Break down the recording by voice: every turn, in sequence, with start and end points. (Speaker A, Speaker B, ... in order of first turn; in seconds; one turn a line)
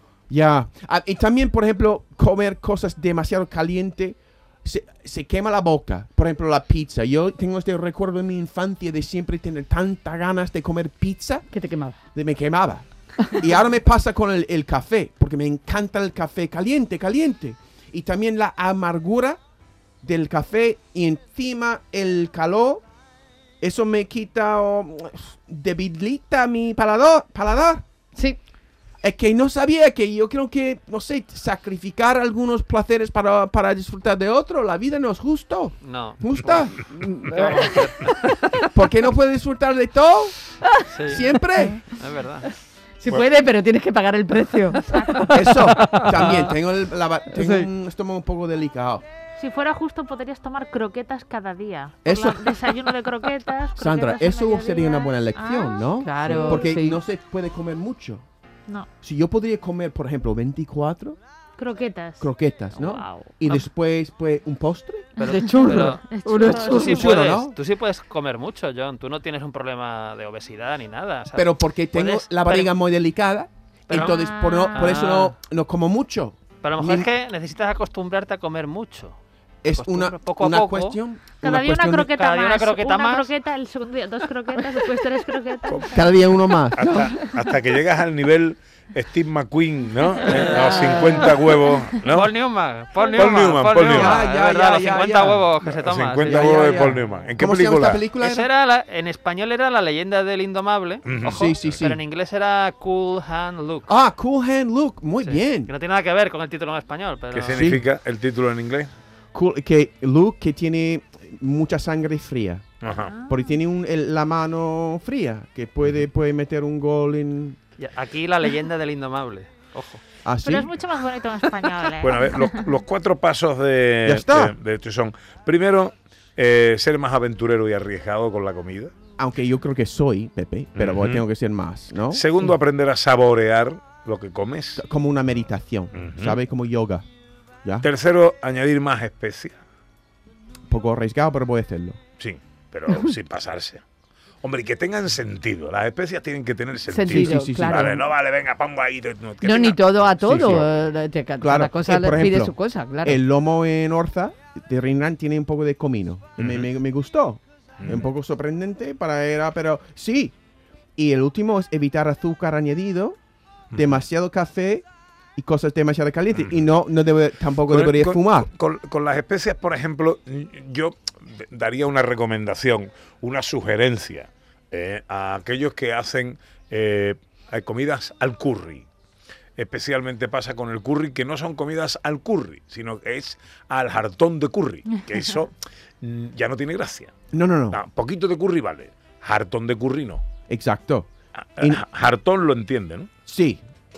Speaker A: 0.3-11.5
Speaker B: 11.5-12.0
Speaker A: 12.1-19.4
Speaker A: 20.0-22.8
Speaker A: 23.6-27.8
Speaker A: 29.0-37.9
Speaker C: 35.8-38.3
Speaker A: 38.6-40.4
Speaker C: 40.9-41.3
Speaker A: 41.0-41.8
Speaker C: 41.9-42.5
Speaker B: 43.0-46.3
Speaker D: 44.9-45.5
Speaker A: 45.3-49.0
Speaker C: 45.9-46.3
Speaker B: 47.3-47.7
Speaker D: 49.4-55.9
Speaker A: 52.0-52.5
Speaker A: 53.8-58.2
Speaker B: 56.0-57.0
Speaker A: 59.0-61.2
Speaker D: 61.6-62.3
Speaker A: 62.2-65.1
Speaker C: 62.7-63.5
Speaker C: 65.2-72.8
Speaker D: 65.2-67.1
Speaker B: 65.2-67.0
Speaker A: 66.8-67.6
Speaker A: 71.3-77.1
Speaker C: 73.9-74.2
Speaker D: 74.0-75.0
Speaker C: 74.7-75.4
Speaker C: 76.6-79.2
Speaker A: 79.6-82.1
Speaker C: 79.7-83.4
Speaker D: 81.4-85.9
Speaker A: 85.9-87.2
Speaker E: 86.7-92.3
Speaker C: 90.3-97.1
Speaker E: 93.1-94.2
Speaker A: 93.9-95.5
Speaker E: 95.6-98.1
Speaker A: 96.3-98.5
Speaker C: 98.2-103.9
Speaker E: 101.0-101.9
Speaker A: 101.2-102.0
Speaker A: 103.9-105.7
Speaker C: 105.2-107.8
Speaker E: 107.3-108.9
Speaker A: 107.5-107.8
Speaker A: 109.3-112.7
Speaker E: 112.8-113.1
Speaker D: 112.9-113.5
Speaker A: 113.3-117.6
Speaker C: 117.8-120.0
Speaker A: 120.2-120.7
Speaker D: 120.4-122.7
Speaker E: 122.0-128.9
Speaker A: 124.0-124.5
Speaker A: 129.2-132.4
Speaker E: 130.8-131.2
Speaker E: 132.1-134.8
Speaker A: 134.8-137.0
Speaker E: 135.9-136.4
Speaker E: 137.8-139.6
Speaker A: 140.7-142.0
Speaker E: 142.2-143.8
Speaker E: 144.4-150.7
Speaker B: 146.9-148.0
Speaker A: 147.1-148.0
Speaker B: 149.4-153.2
Speaker A: 150.2-150.7
Speaker A: 151.4-160.3
Speaker E: 156.4-156.7
Speaker E: 157.8-158.1
Speaker A: 161.0-163.2
Speaker E: 163.7-164.0
Speaker A: 163.7-164.8
Speaker A: 165.4-168.5
Speaker E: 166.3-166.7
Speaker E: 167.7-178.8
Speaker E: 179.6-187.1
Speaker A: 187.3-187.8
Speaker E: 187.7-190.2
Speaker A: 190.5-191.8
Speaker E: 191.5-193.1
Speaker A: 193.2-193.6